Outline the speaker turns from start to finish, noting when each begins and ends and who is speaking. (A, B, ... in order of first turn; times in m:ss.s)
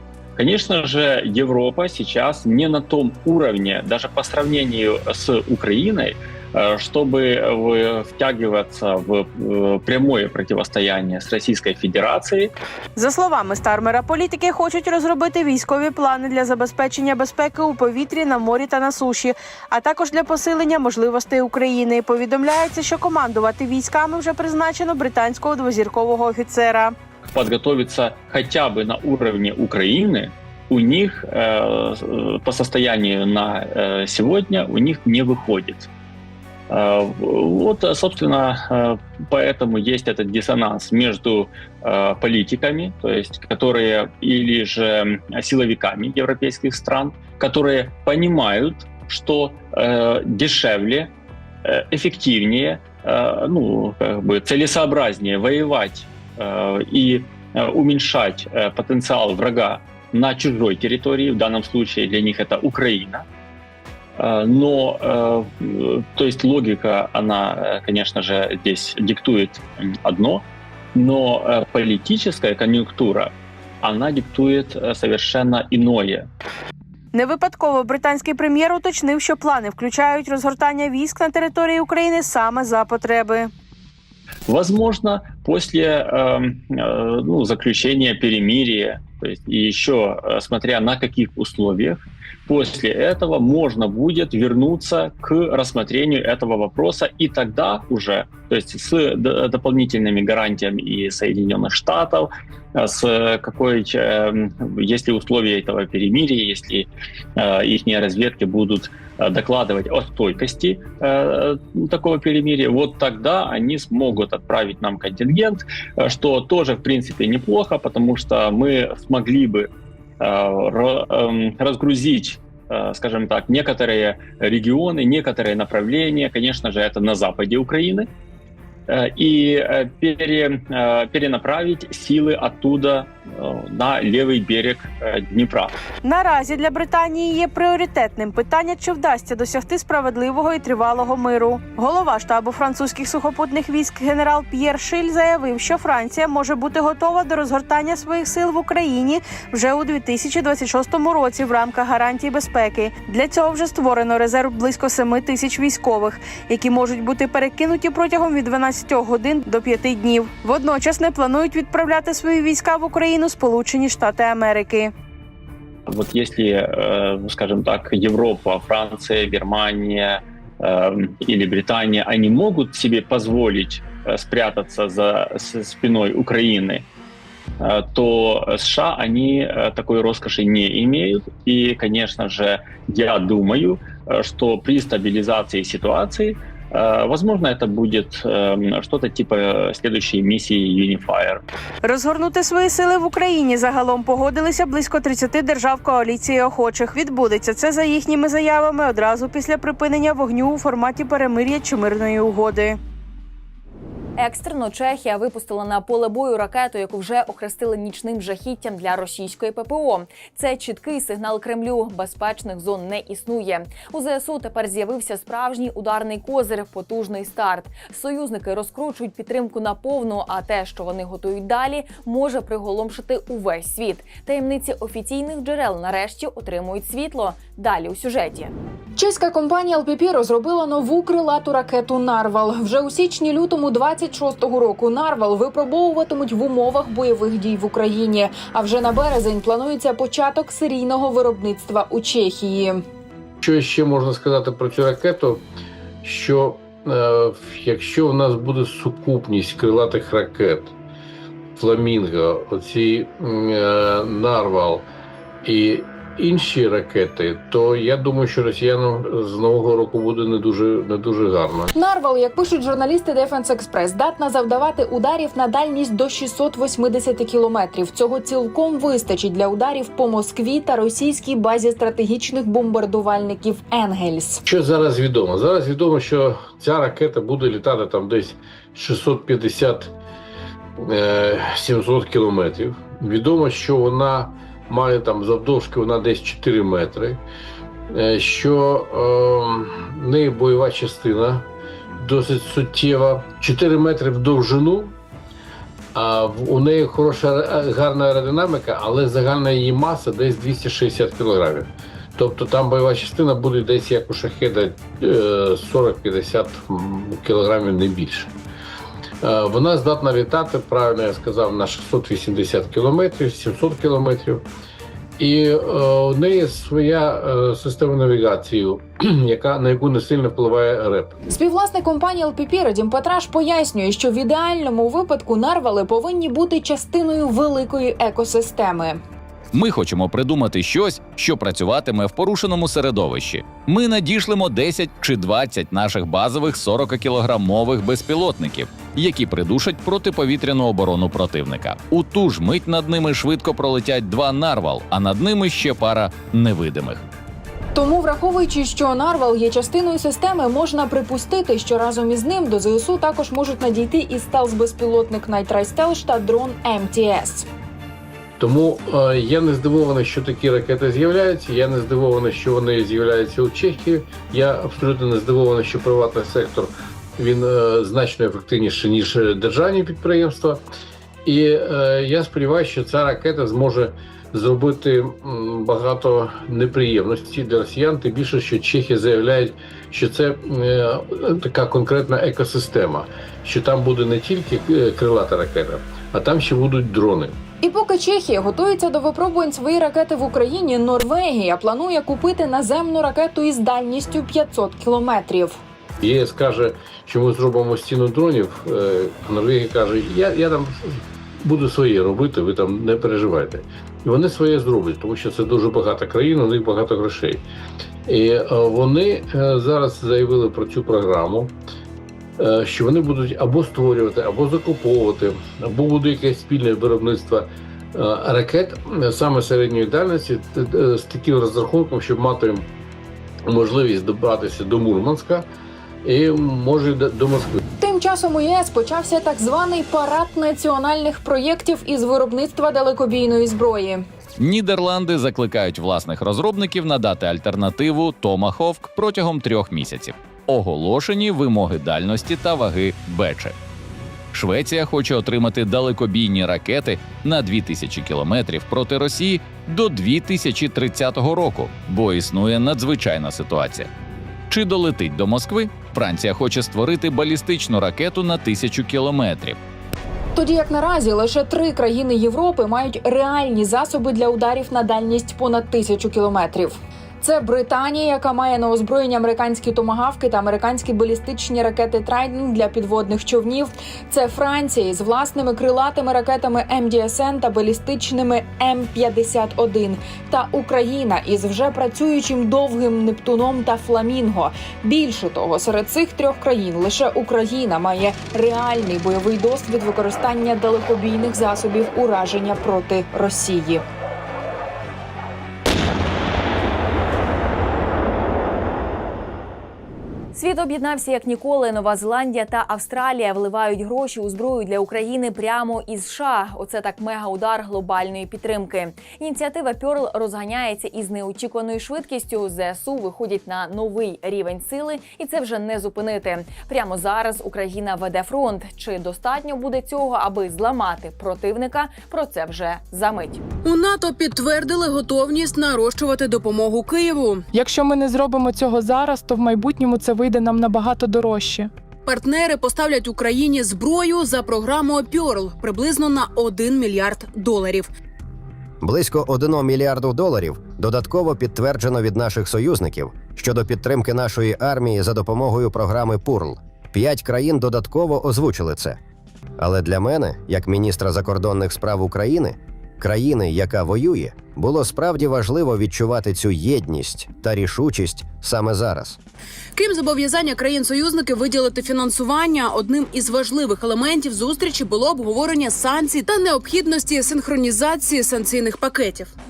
0:00.4-0:12.5 A
0:13.0-0:26.9 B
0:27.3-0:35.9 A
0:36.7-0:51.1 A
0:51.6-1:03.2 A
1:04.2-1:16.3 A
1:17.1-1:23.5 B
1:24.5-1:59.7 A
2:00.2-2:08.1 A
2:08.9-2:15.7 A
2:16.0-2:44.9 B
2:45.9-2:56.8 A
2:57.6-3:11.4 A
3:11.8-3:22.8 B
3:24.2-3:48.5 C
3:49.0-4:02.8 D
4:03.4-4:05.4 E
4:06.0-4:10.7 E
4:11.6-4:14.8 E
4:15.4-4:21.7 E
4:21.7-4:34.4 D
4:34.4-4:39.9 E
4:40.8-4:47.2 E
4:47.9-4:51.5 E
4:52.0-4:54.9 E
4:55.9-5:08.3 E
5:09.2-5:14.4 E
5:15.2-5:21.2 E
5:21.2-5:29.0 D
5:29.5-5:47.0 F
5:47.7-5:57.5 D
5:58.4-6:10.6 E
6:11.2-6:27.4 E
6:27.6-6:35.6 D
6:36.0-6:47.4 E
6:48.0-6:51.5 E
6:52.4-7:02.6 E
7:03.4-7:05.5 E
7:06.0-7:07.6 E
7:07.8-7:14.0 D
7:14.4-7:23.5 F
7:24.3-7:33.9 F
7:34.5-7:39.6 F
7:40.3-8:13.8 D
8:20.3-8:43.4 C
8:43.6-8:47.4 G
8:47.5-8:51.7 H
8:52.0-8:57.9 G
8:58.8-9:09.0 I
9:09.6-9:19.2 I
9:19.8-9:29.3 G